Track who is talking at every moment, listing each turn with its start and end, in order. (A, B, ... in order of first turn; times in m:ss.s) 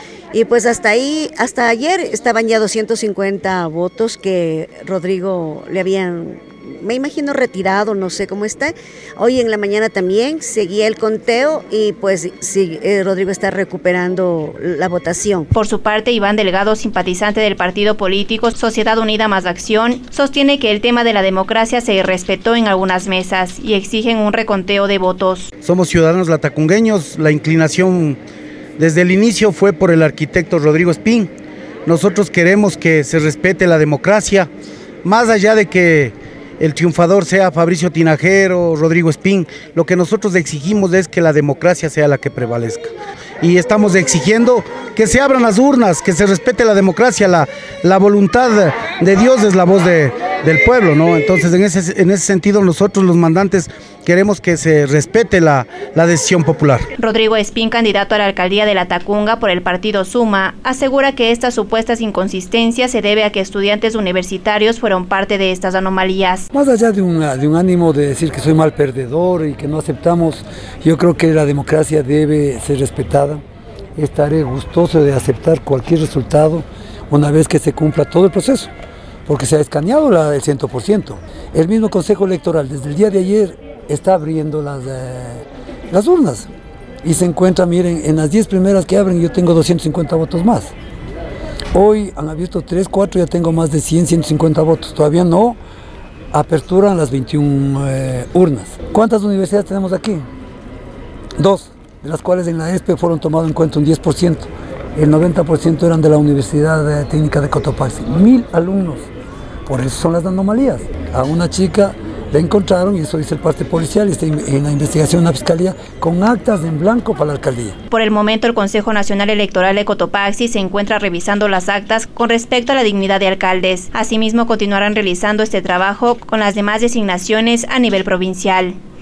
0:00.3-0:15.5 A
0:15.5-0:25.5 B
0:25.6-0:28.2 C
0:28.8-0:31.3 C
0:31.8-0:34.5 C
0:35.0-0:56.9 C
0:57.0-1:06.4 B
1:06.5-1:13.4 D
1:14.0-1:18.7 D
1:19.3-1:26.5 D
1:27.0-1:30.7 D
1:31.7-1:35.6 D
1:36.3-1:40.2 D
1:41.4-1:49.1 D
1:49.6-1:57.8 D
1:57.9-2:08.8 B